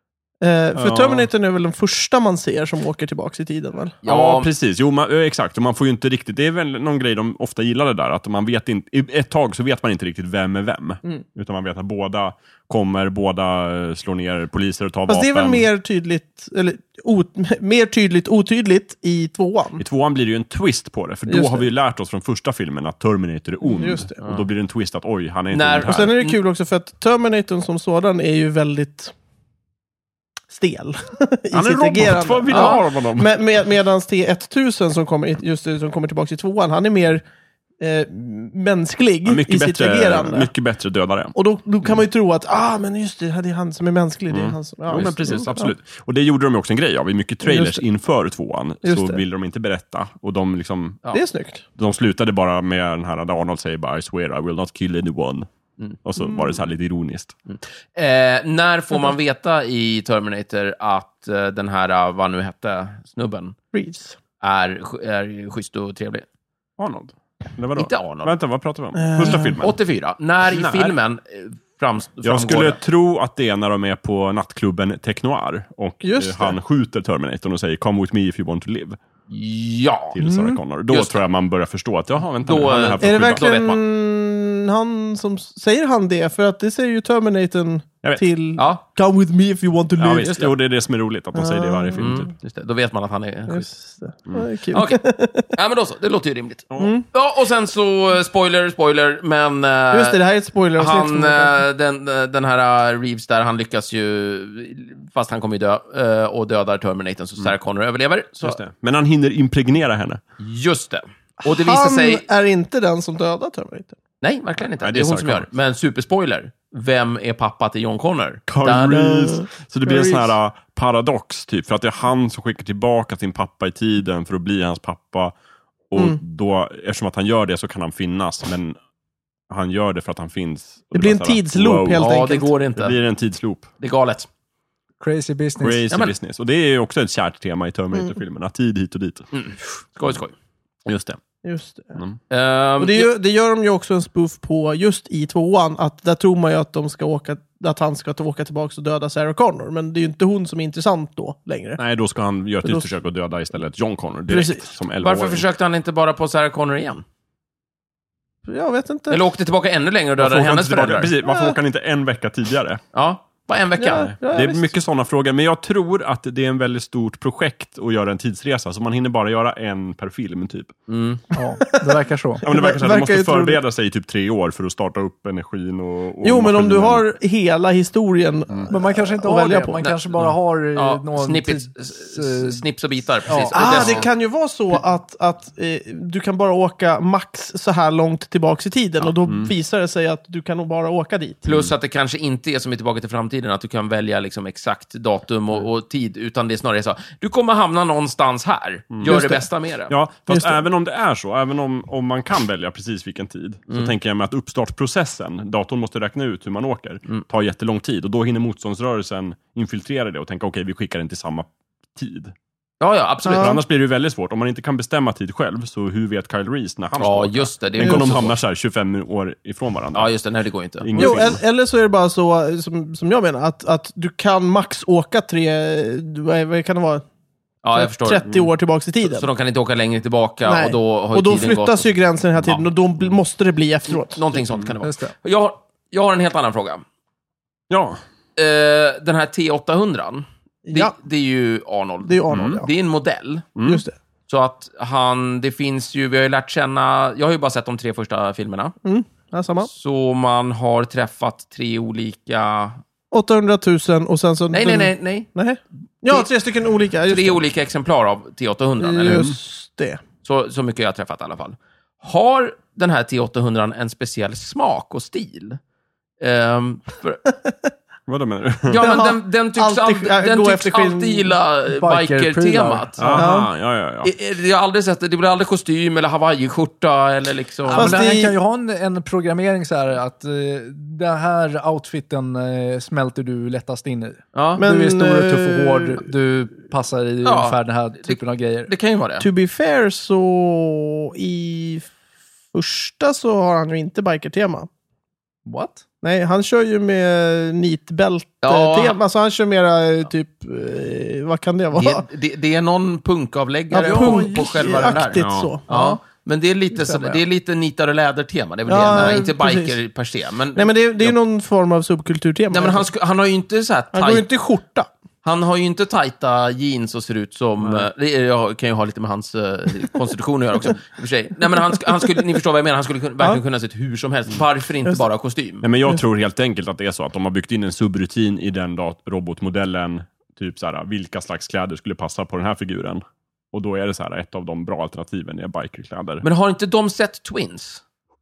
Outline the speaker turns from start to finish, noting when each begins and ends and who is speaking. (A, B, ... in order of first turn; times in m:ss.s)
0:00.4-0:04.0 A
0:00.8-0:01.3 B
0:04.0-0:04.5 C
0:04.0-0:15.7 B
0:15.1-0:19.8 A
0:19.8-0:26.1 B
0:21.3-0:21.7 A
0:23.7-0:24.2 A
0:25.5-0:26.4 C
0:25.9-0:29.1 A
0:30.5-0:37.2 A
0:31.5-0:33.3 B
0:32.5-0:32.8 C
0:37.8-0:40.5 A
0:39.2-0:41.3 B
0:41.4-0:45.7 A
0:44.3-0:51.0 B
0:47.4-0:47.8 A
0:48.8-0:49.2 A
0:51.1-0:51.6 A
0:51.8-0:55.5 B
0:56.0-0:57.4 B
0:57.5-1:03.6 C
1:03.7-1:04.2 A
1:04.4-1:06.2 C
1:06.8-1:09.8 B
1:07.8-1:08.3 C
1:09.0-1:09.6 A
1:09.2-1:12.8 C
1:10.5-1:11.0 B
1:12.2-1:19.0 B
1:16.0-1:16.6 A
1:19.3-1:20.2 C
1:20.1-1:23.4 B
1:20.2-1:20.6 A
1:20.9-1:21.2 C
1:22.4-1:23.8 C
1:23.0-1:30.4 A
1:28.6-1:28.8 C
1:30.0-1:32.3 B
1:31.4-1:32.0 A
1:32.0-1:33.7 C
1:33.5-1:35.5 A
1:34.7-1:40.2 C
1:36.8-1:37.0 A
1:39.9-1:41.7 A
1:40.8-1:48.6 C
1:48.4-1:50.2 B
1:50.4-1:52.2 C
1:51.4-1:54.0 A
1:54.2-1:59.4 C
1:54.8-1:55.5 B
1:58.5-2:05.3 B
1:59.8-2:00.3 A
2:05.9-2:08.8 B
2:09.5-2:12.1 B
2:10.9-2:12.5 A
2:12.0-2:13.0 C
2:12.8-2:13.7 B
2:13.8-2:14.3 C
2:15.0-2:15.9 D
2:15.6-2:19.3 B
2:19.3-2:20.3 C
2:20.9-2:21.2 B
2:21.4-2:22.0 A
2:22.3-2:23.1 C
2:22.8-2:31.8 A
2:31.8-2:35.5 B
2:32.6-2:32.9 A
2:34.3-2:34.6 A
2:35.0-2:37.0 C
2:38.5-2:39.2 A
2:39.1-2:41.1 C
2:40.2-2:42.8 B
2:41.2-2:41.6 A
2:42.9-2:44.1 C
2:43.8-2:44.7 A
2:44.0-2:50.8 B
2:50.9-2:51.2 C
2:51.4-2:52.4 D
2:51.6-2:53.6 A
2:52.4-2:57.0 B
2:56.2-2:59.8 A
2:58.7-3:02.6 D
2:59.8-3:04.1 C
3:03.3-3:04.0 D
3:03.5-3:11.4 A
3:09.3-3:09.5 B
3:11.4-3:19.9 C
3:11.5-3:11.7 B
3:18.9-3:19.2 B
3:19.0-3:19.4 A
3:19.9-3:32.3 B
3:20.3-3:20.6 A
3:32.8-3:33.6 C
3:33.2-3:33.6 A
3:33.3-3:40.1 B
3:37.0-3:38.4 C
3:39.9-3:41.3 C
3:40.8-3:41.4 B
3:41.0-3:47.0 A
3:47.6-3:48.4 C
3:47.7-3:49.3 A
3:49.0-3:51.9 C
3:50.4-3:54.2 A
3:53.9-3:56.8 C
3:54.8-3:55.1 D
3:57.7-3:58.0 B
3:58.4-4:03.5 C
4:00.7-4:00.9 A
4:02.1-4:02.7 A
4:02.3-4:02.6 B
4:03.6-4:03.8 B
4:03.6-4:04.0 A
4:04.3-4:08.8 C
4:08.8-4:09.7 A
4:09.7-4:12.8 C
4:13.1-4:17.4 A
4:14.5-4:15.3 C
4:17.1-4:19.3 C
4:18.8-4:20.0 A
4:20.2-4:25.6 C
4:26.2-4:27.2 C
4:28.1-4:28.9 B
4:28.7-4:33.2 C
4:28.8-4:31.4 A
4:31.7-4:33.2 D
4:33.0-4:34.1 B
4:33.2-4:33.5 A
4:34.0-4:38.0 C
4:37.7-4:48.7 D
4:37.7-4:38.4 A
4:44.3-4:44.6 C
4:44.6-4:46.0 A
4:47.2-4:49.3 C
4:49.2-4:51.9 A
4:52.5-4:54.7 A
4:55.5-4:55.8 D
4:56.0-5:02.0 A
4:58.4-4:59.0 C
5:01.8-5:11.2 C
5:03.7-5:06.0 A
5:03.8-5:05.0 D
5:05.2-5:05.5 B
5:06.8-5:07.2 D
5:08.7-5:09.8 A
5:10.6-5:12.9 A
5:12.5-5:14.3 C
5:13.9-5:14.9 A
5:15.2-5:25.7 C
5:25.6-5:36.2 B
5:36.2-5:37.8 C